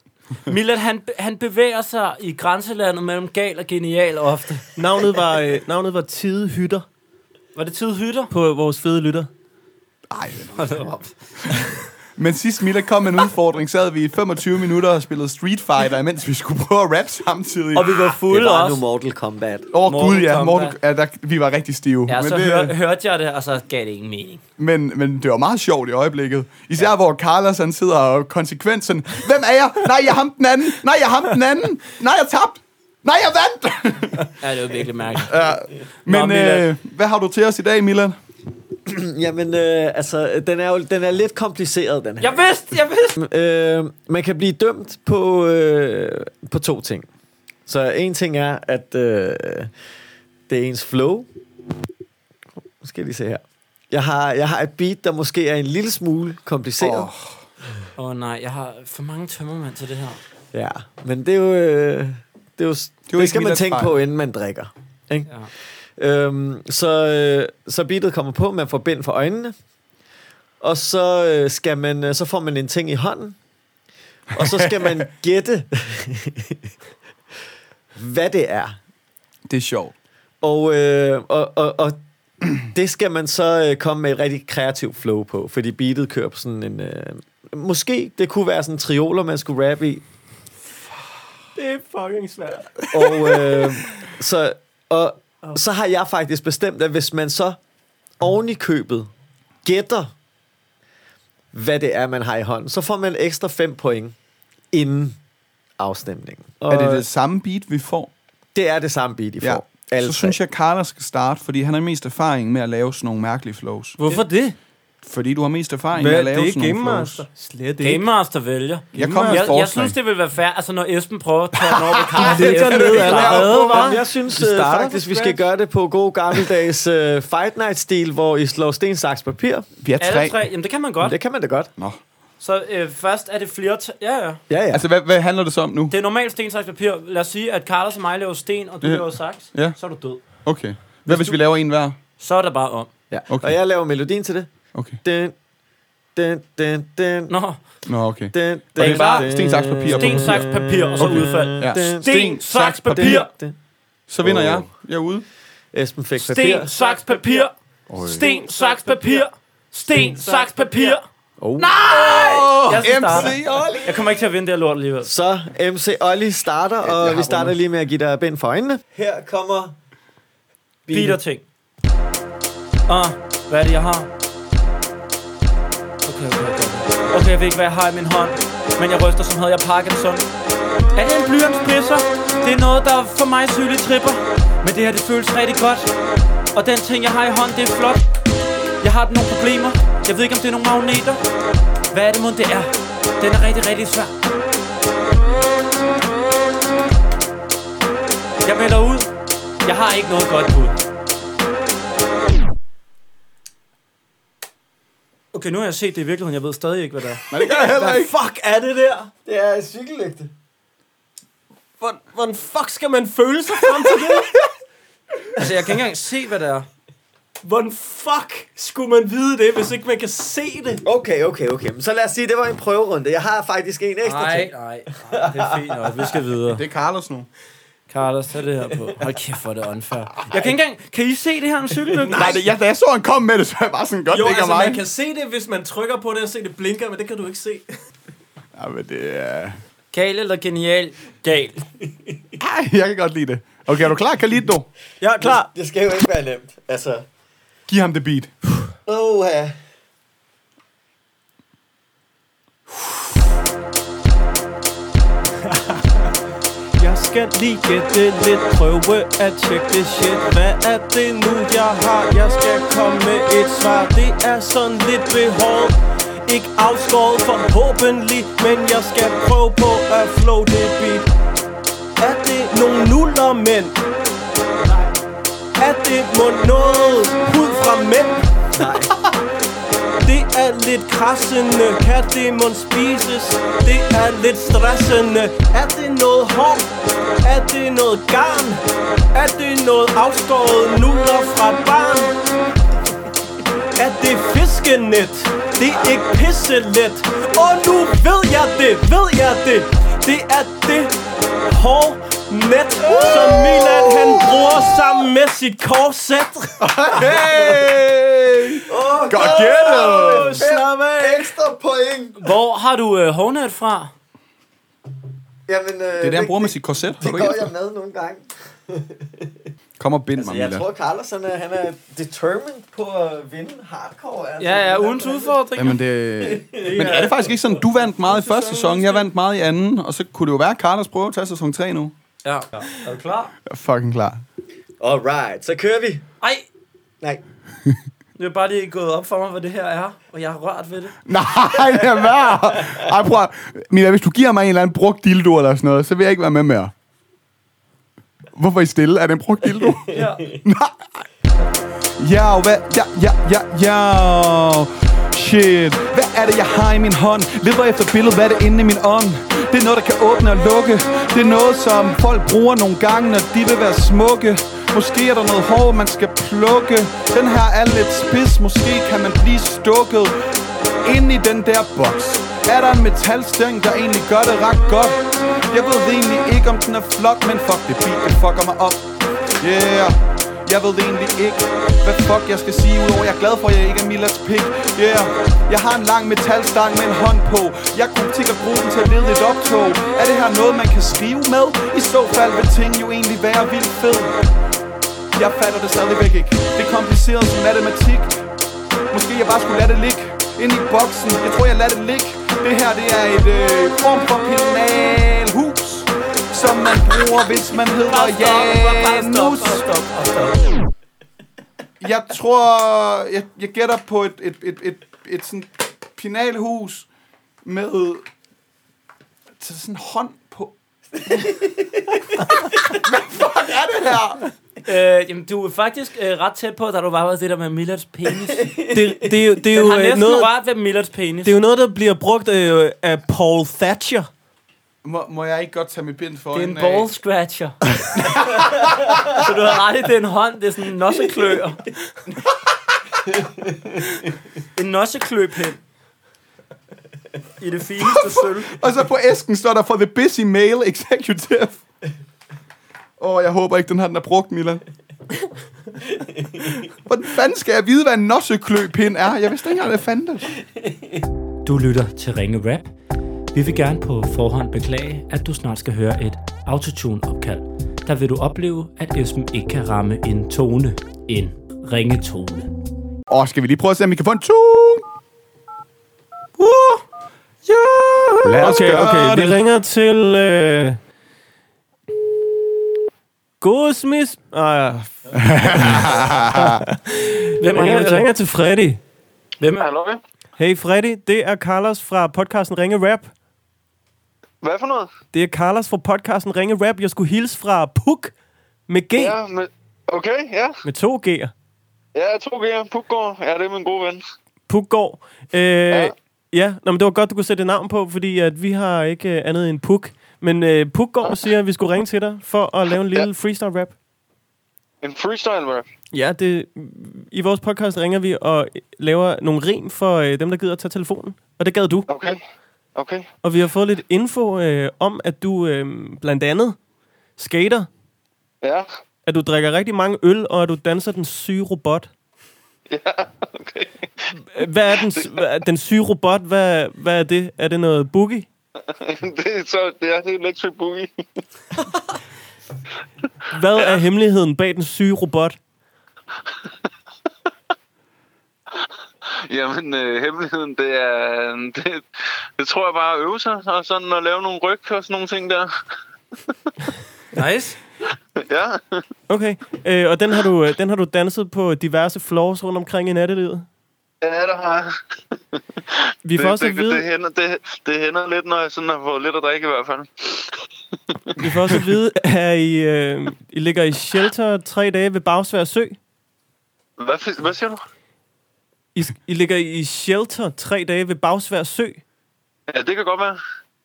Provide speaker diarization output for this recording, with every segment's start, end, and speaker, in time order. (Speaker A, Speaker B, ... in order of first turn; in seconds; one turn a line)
Speaker A: 0.5-4.6
Speaker B: 4.8-6.9
Speaker A: 7.6-8.3
Speaker B: 8.3-9.3
Speaker C: 10.1-10.7
Speaker A: 10.6-11.7
Speaker C: 12.2-18.0
Speaker A: 17.8-18.8
Speaker D: 18.2-19.7
Speaker C: 19.7-22.8
Speaker A: 19.9-20.8
Speaker A: 22.1-24.4
Speaker C: 24.6-34.3
Speaker A: 34.4-35.3
Speaker C: 35.2-38.1
Speaker A: 36.1-36.6
Speaker D: 38.9-42.5
Speaker A: 42.2-43.2
Speaker D: 43.2-47.1
Speaker D: 47.7-49.7
Speaker D: 50.5-51.3
Speaker D: 52.8-57.1
Speaker C: 56.8-57.3
Speaker A: 58.0-60.2
Speaker D: 60.5-65.3
Speaker C: 63.1-64.0
Speaker D: 66.0-69.5
Speaker D: 70.6-73.4
Speaker D: 74.3-76.7
Speaker C: 74.4-75.0
Speaker D: 78.0-78.8
Speaker C: 79.5-79.9
Speaker D: 80.4-90.0
Speaker B: 91.6-92.8
Speaker D: 92.9-97.6
Speaker D: 98.2-99.1
Speaker D: 99.6-100.1
Speaker D: 101.5-104.2
Speaker D: 104.7-105.2
Speaker D: 105.8-107.0
Speaker C: 106.7-108.1
Speaker D: 108.5-110.4
Speaker C: 109.4-114.0
Speaker B: 114.0-114.6
Speaker A: 114.0-114.3
Speaker C: 115.0-117.3
Speaker B: 115.9-118.1
Speaker A: 117.8-123.9
Speaker C: 118.9-120.0
Speaker B: 119.0-119.6
Speaker C: 121.7-123.8
Speaker B: 122.2-125.5
Speaker D: 123.2-129.7
Speaker C: 129.8-130.4
Speaker A: 130.0-131.2
Speaker D: 131.0-131.7
Speaker A: 132.4-134.4
Speaker D: 134.5-134.8
Speaker C: 134.7-135.9
Speaker A: 135.9-140.2
Speaker C: 138.8-139.8
Speaker C: 140.3-142.0
Speaker A: 141.1-141.4
Speaker A: 142.2-142.9
Speaker D: 143.1-144.5
Speaker C: 143.3-143.6
Speaker C: 144.7-145.0
Speaker D: 145.0-145.3
Speaker D: 146.2-147.3
Speaker A: 147.3-147.6
Speaker C: 147.9-150.5
Speaker D: 148.3-152.3
Speaker A: 148.8-149.3
Speaker A: 149.8-153.3
Speaker C: 151.0-153.3
Speaker D: 152.9-153.6
Speaker C: 154.1-155.3
Speaker D: 154.2-154.7
Speaker D: 155.7-156.7
Speaker A: 156.2-157.5
Speaker B: 156.7-157.5
Speaker C: 157.9-158.2
Speaker B: 158.0-159.3
Speaker A: 158.1-161.1
Speaker B: 159.9-161.0
Speaker D: 161.4-162.3
Speaker A: 161.6-165.1
Speaker C: 161.8-163.8
Speaker D: 162.9-164.0
Speaker D: 165.0-169.8
Speaker A: 167.0-167.4
Speaker C: 167.0-167.3
Speaker D: 170.9-171.2
Speaker A: 170.9-171.4
Speaker A: 172.9-174.1
Speaker A: 176.1-180.3
Speaker A: 180.9-185.9
Speaker A: 186.5-188.0
Speaker A: 188.8-191.2
Speaker A: 191.9-194.1
Speaker A: 198.4-199.1
Speaker A: 199.7-200.8
Speaker A: 205.3-207.3
Speaker C: 207.3-208.2
Speaker B: 207.4-209.1
Speaker D: 209.3-210.3
Speaker B: 211.8-214.4
Speaker C: 213.8-214.1
Speaker A: 215.4-216.7
Speaker B: 217.4-220.8
Speaker D: 220.8-224.5
Speaker A: 224.0-226.6
Speaker D: 225.1-226.1
Speaker C: 226.5-227.3
Speaker A: 227.9-232.4
Speaker C: 232.0-234.8
Speaker B: 234.1-237.7
Speaker C: 238.6-239.6
Speaker A: 239.9-241.6
Speaker C: 242.4-244.7
Speaker B: 245.0-245.5
Speaker D: 245.2-247.1
Speaker C: 247.7-248.3
Speaker D: 248.9-249.6
Speaker B: 256.8-271.1
Speaker B: 272.0-273.8
Speaker B: 275.6-278.3
Speaker D: 278.6-278.9
Speaker B: 280.0-292.1
Speaker B: 293.8-300.9
Speaker B: 301.5-306.6
Speaker C: 303.0-304.6
Speaker C: 306.6-310.5
Speaker D: 306.9-307.6
Speaker D: 308.7-312.2
Speaker B: 309.3-311.4
Speaker A: 312.2-313.9
Speaker D: 315.5-319.4
Speaker C: 316.0-317.5
Speaker C: 319.8-320.6
Speaker D: 320.2-325.4
Speaker A: 324.4-325.8
Speaker C: 325.6-331.9
Speaker D: 326.2-327.1
Speaker B: 326.8-329.1
Speaker A: 332.2-333.3
Speaker C: 333.5-334.2
Speaker D: 334.8-336.0
Speaker A: 336.2-336.5
Speaker A: 338.2-341.0
Speaker C: 341.1-346.7
Speaker C: 348.3-351.0
Speaker D: 349.6-350.4
Speaker A: 349.9-350.2
Speaker C: 352.0-370.1
Speaker C: 370.8-378.9
Speaker C: 379.4-394.1
Speaker C: 395.1-398.3
Speaker C: 398.9-409.6
Speaker A: 407.9-410.5
Speaker C: 411.8-416.9
Speaker C: 417.4-418.1
Speaker C: 419.4-420.5
Speaker D: 421.1-422.3
Speaker C: 422.6-424.2
Speaker A: 424.6-428.5
Speaker D: 428.3-429.1
Speaker B: 428.7-430.3
Speaker A: 429.6-431.4
Speaker B: 431.2-434.1
Speaker C: 434.8-436.9
Speaker A: 436.3-437.6
Speaker C: 437.9-438.7
Speaker A: 439.1-441.6
Speaker A: 444.6-445.6
Speaker A: 447.4-448.6
Speaker C: 447.8-451.6
Speaker C: 453.0-454.6
Speaker C: 456.9-460.3
Speaker A: 461.4-462.7
Speaker A: 463.3-472.5
Speaker C: 473.1-474.9
Speaker A: 476.4-476.8
Speaker C: 478.2-479.4
Speaker B: 478.3-480.8
Speaker B: 483.4-484.9
Speaker C: 485.1-486.6
Speaker B: 486.3-488.8
Speaker A: 487.4-488.1
Speaker A: 489.4-489.7
Speaker E: 489.6-490.0
Speaker B: 490.4-493.1
Speaker E: 494.4-494.9
Speaker B: 495.1-498.1
Speaker B: 498.7-499.2
Speaker E: 499.0-500.6
Speaker B: 500.6-501.3
Speaker E: 501.9-504.0
Speaker B: 504.5-513.8
Speaker E: 514.8-515.7
Speaker B: 515.9-521.9
Speaker E: 521.9-522.2
Speaker E: 522.8-523.1
Speaker B: 523.2-526.6
Speaker B: 527.2-527.7
Speaker E: 528.4-528.7
Speaker B: 529.1-531.9
Speaker E: 532.7-533.8
Speaker B: 534.2-538.3
Speaker E: 538.7-540.9
Speaker B: 543.3-545.4
Speaker E: 549.3-551.8
Speaker E: 552.4-555.5
Speaker A: 557.1-557.6
Speaker E: 558.2-558.8
Speaker B: 559.1-563.5
Speaker E: 564.0-564.7
Speaker B: 566.0-566.9
Speaker E: 566.1-570.4
Speaker B: 571.2-575.8
Speaker E: 576.8-577.6
Speaker B: 578.8-581.8
Speaker E: 582.5-583.2